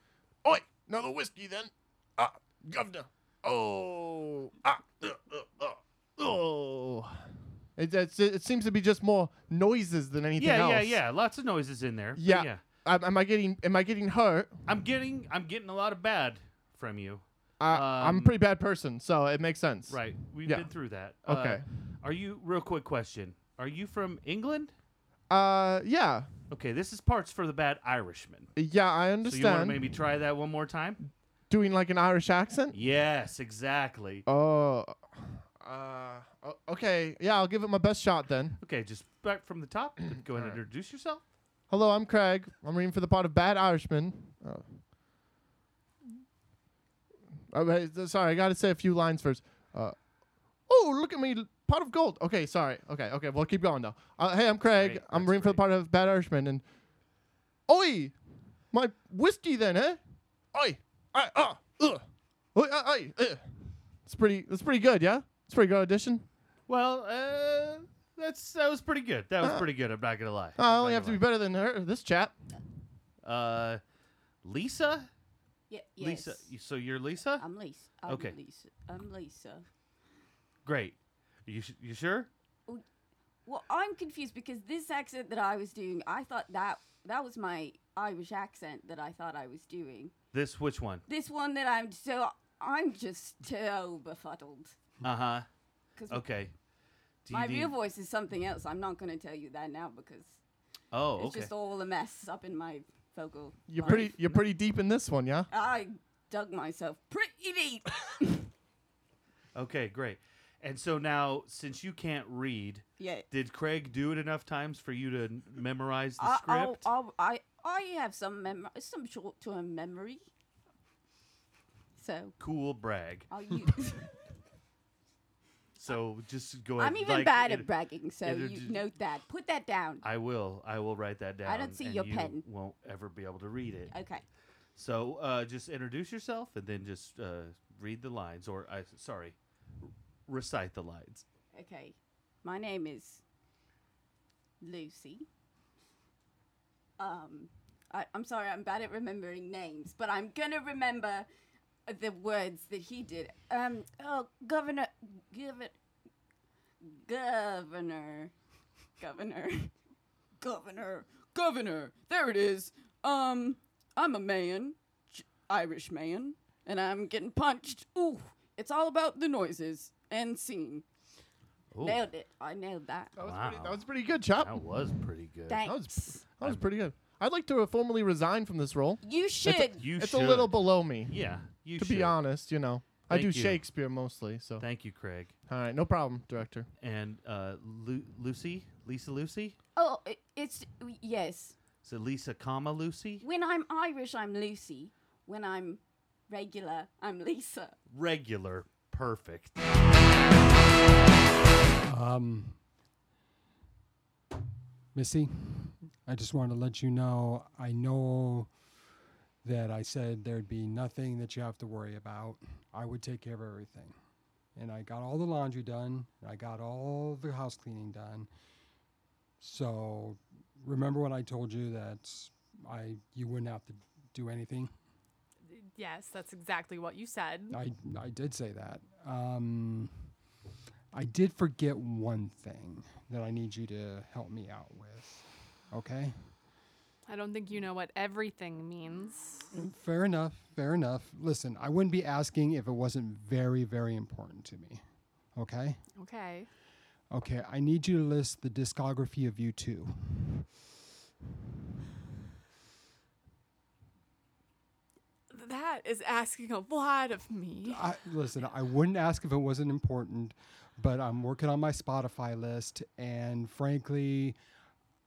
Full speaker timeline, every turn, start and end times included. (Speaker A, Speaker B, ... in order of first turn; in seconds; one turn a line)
Speaker A: 0.4-11.0
Speaker B: 10.4-12.6
Speaker A: 12.2-14.6
Speaker B: 14.7-18.4
Speaker A: 17.6-21.6
Speaker B: 19.9-24.7
Speaker A: 25.3-26.3
Speaker B: 26.5-28.5
Speaker A: 28.6-29.9
Speaker B: 29.2-31.0
Speaker A: 31.5-32.8
Speaker B: 32.7-34.3
Speaker A: 34.3-38.6
Speaker B: 38.6-41.2
Speaker A: 41.7-44.8
Speaker A: 47.5-50.0
Speaker A: 50.7-56.6
Speaker B: 54.7-55.6
Speaker A: 57.7-58.2
Speaker A: 58.7-60.0
Speaker A: 60.5-62.0
Speaker A: 62.5-63.4
Speaker A: 64.1-66.3
Speaker B: 66.7-71.2
Speaker A: 70.6-72.3
Speaker B: 73.2-73.8
Speaker B: 74.4-75.1
Speaker C: 75.7-76.5
Speaker B: 76.0-77.5
Speaker C: 77.4-79.7
Speaker B: 78.1-78.3
Speaker B: 80.7-82.3
Speaker C: 83.5-90.1
Speaker B: 90.3-91.1
Speaker C: 91.1-94.8
Speaker B: 95.0-95.5
Speaker C: 96.0-96.2
Speaker B: 96.1-96.5
Speaker B: 97.2-97.7
Speaker C: 97.3-100.4
Speaker B: 100.9-101.5
Speaker C: 101.2-104.1
Speaker A: 103.7-105.5
Speaker C: 105.5-108.5
Speaker B: 109.5-116.9
Speaker C: 113.0-113.3
Speaker C: 116.2-120.2
Speaker C: 122.0-122.4
Speaker B: 122.4-123.3
Speaker C: 123.3-124.1
Speaker B: 125.8-127.7
Speaker C: 126.8-130.0
Speaker B: 128.2-128.8
Speaker B: 130.0-133.9
Speaker C: 131.4-132.4
Speaker C: 133.9-134.2
Speaker B: 134.8-141.2
Speaker C: 141.5-143.2
Speaker C: 144.6-145.3
Speaker C: 147.0-151.3
Speaker C: 151.9-155.8
Speaker C: 156.8-158.3
Speaker C: 159.0-159.7
Speaker C: 160.4-170.8
Speaker B: 171.7-172.0
Speaker C: 171.8-173.1
Speaker A: 173.2-174.8
Speaker B: 173.2-173.8
Speaker B: 174.3-175.7
Speaker C: 175.5-176.2
Speaker A: 175.6-181.2
Speaker C: 179.0-179.8
Speaker B: 179.6-182.2
Speaker A: 181.8-184.7
Speaker B: 183.1-183.6
Speaker B: 184.6-185.3
Speaker A: 185.5-186.7
Speaker B: 186.8-189.6
Speaker C: 189.8-191.6
Speaker B: 191.8-193.2
Speaker C: 193.2-197.8
Speaker B: 197.9-199.6
Speaker D: 201.8-202.6
Speaker D: 204.9-208.5
Speaker D: 209.4-213.9
Speaker D: 214.6-218.3
Speaker D: 219.4-224.7
Speaker E: 225.5-227.6
Speaker D: 227.5-230.0
Speaker D: 230.9-236.3
Speaker E: 237.1-239.5
Speaker D: 239.5-244.8
Speaker D: 245.3-245.8
Speaker E: 246.0-246.5
Speaker D: 247.1-250.5
Speaker E: 255.3-257.8
Speaker D: 257.6-264.4